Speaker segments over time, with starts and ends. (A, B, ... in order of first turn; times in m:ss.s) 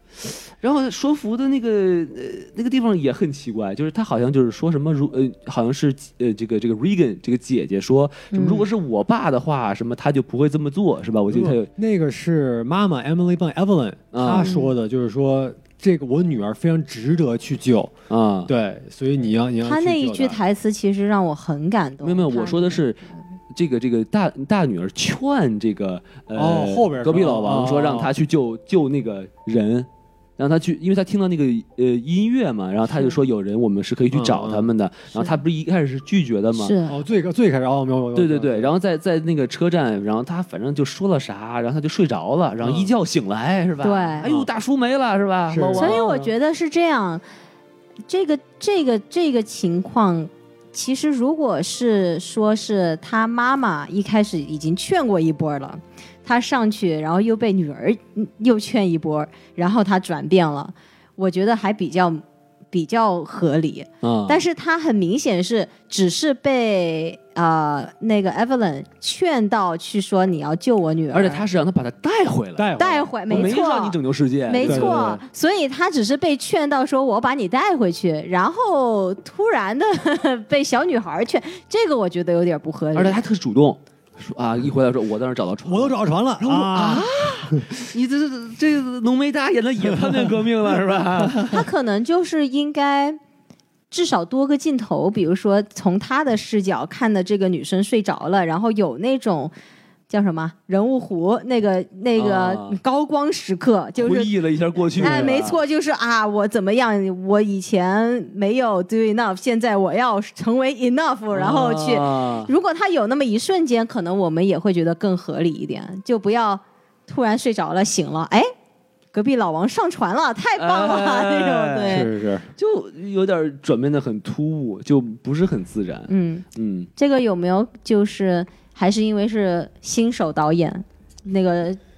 0:00.2-0:11.7 A
0:08.3-0:08.7 B
0:11.3-0:17.9 C
0:14.1-0:14.6 A
0:14.4-0:14.7 B
0:18.1-0:18.5 A
0:18.5-0:20.4 C
0:19.6-0:22.8 B
0:22.0-0:23.0 A
0:23.5-0:29.9 A
0:26.3-0:28.1 C
0:30.4-0:36.8 A
0:34.1-0:34.7 C
0:36.5-0:37.0 B
0:36.9-0:38.7 C
0:38.2-0:46.3 A
0:42.6-0:42.9 C
0:43.8-0:44.3 B
0:44.2-0:44.5 C
0:45.5-0:46.1 C
0:45.8-0:47.2 B
0:48.1-1:11.4 B
1:04.0-1:04.4 A
1:11.1-1:12.7 A
1:12.6-1:13.6 C
1:12.8-1:23.2 B
1:13.3-1:15.2 A
1:14.6-1:15.2 C
1:23.0-1:31.6 A
1:25.6-1:27.6 C
1:31.5-1:33.2 B
1:33.9-1:39.5 B
1:40.1-1:44.3 B
1:42.2-1:42.8 A
1:44.0-1:45.6 A
1:45.0-1:45.4 C
1:45.0-1:58.5 B
1:51.3-1:52.5 A
1:59.1-2:02.1 B
2:00.6-2:06.9 A
2:01.9-2:02.5 C
2:06.1-2:06.4 B
2:07.0-2:11.8 B